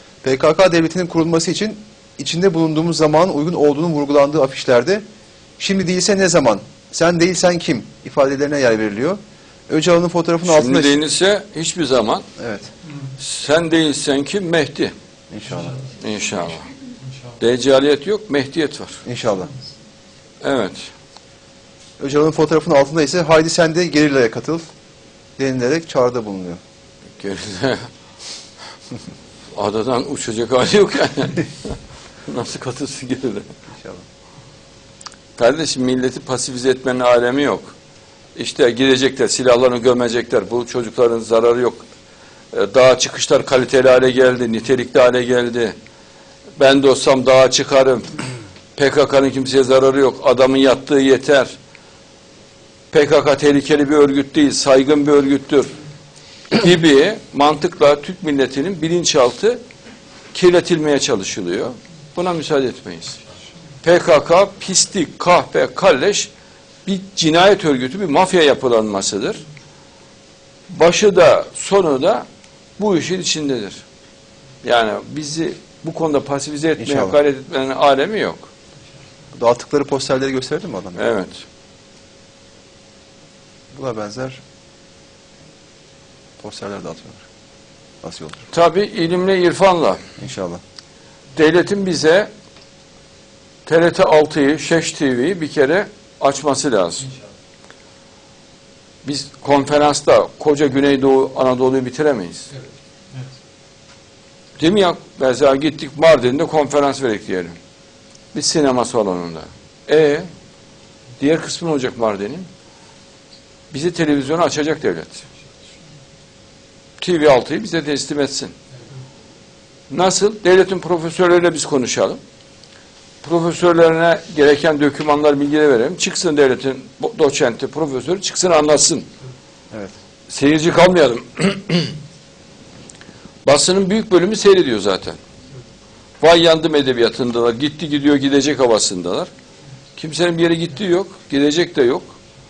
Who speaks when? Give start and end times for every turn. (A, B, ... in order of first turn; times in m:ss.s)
0:00.2-0:05.0 A
0:05.6-0:11.0 A
0:10.4-0:12.3 B
0:12.4-0:12.7 A
0:13.1-0:14.9 B
0:15.3-0:15.8 A
0:15.9-0:16.7 B
0:17.4-0:19.0 B
0:19.0-0:19.5 A
0:20.4-0:20.8 B
0:22.0-0:24.6 A
0:25.4-0:26.6 A
0:27.2-0:27.9 B
0:29.5-0:33.5 B
0:33.7-0:34.0 A
0:35.4-0:37.7 B
0:38.3-0:41.8 B
0:42.5-0:45.7 B
0:46.6-0:48.2 B
0:48.8-0:51.5 B
0:52.9-0:55.7 B
0:56.5-0:59.6 B
1:00.3-1:03.2 B
1:03.8-1:06.3 B
1:06.8-1:09.4 B
1:10.7-1:12.2 B
1:12.8-1:13.8 B
1:14.6-1:18.5 B
1:16.8-1:17.2 A
1:19.3-1:21.0 A
1:21.0-1:21.4 B
1:23.7-1:24.4 A
1:26.4-1:27.2 A
1:28.0-1:28.4 A
1:28.5-1:30.0 B
1:30.2-1:30.6 A
1:31.3-1:32.3 B
1:33.6-1:37.1 B
1:39.0-1:42.5 B
1:44.6-1:47.6 B
1:48.3-1:50.3 B
1:51.2-1:52.5 B
1:53.7-1:55.2 B
1:57.0-1:58.5 B
1:59.9-2:02.2 B
2:03.2-2:09.1 B
2:10.3-2:11.9 B
2:13.4-2:15.2 B
2:16.2-2:19.3 B
2:20.0-2:22.2 B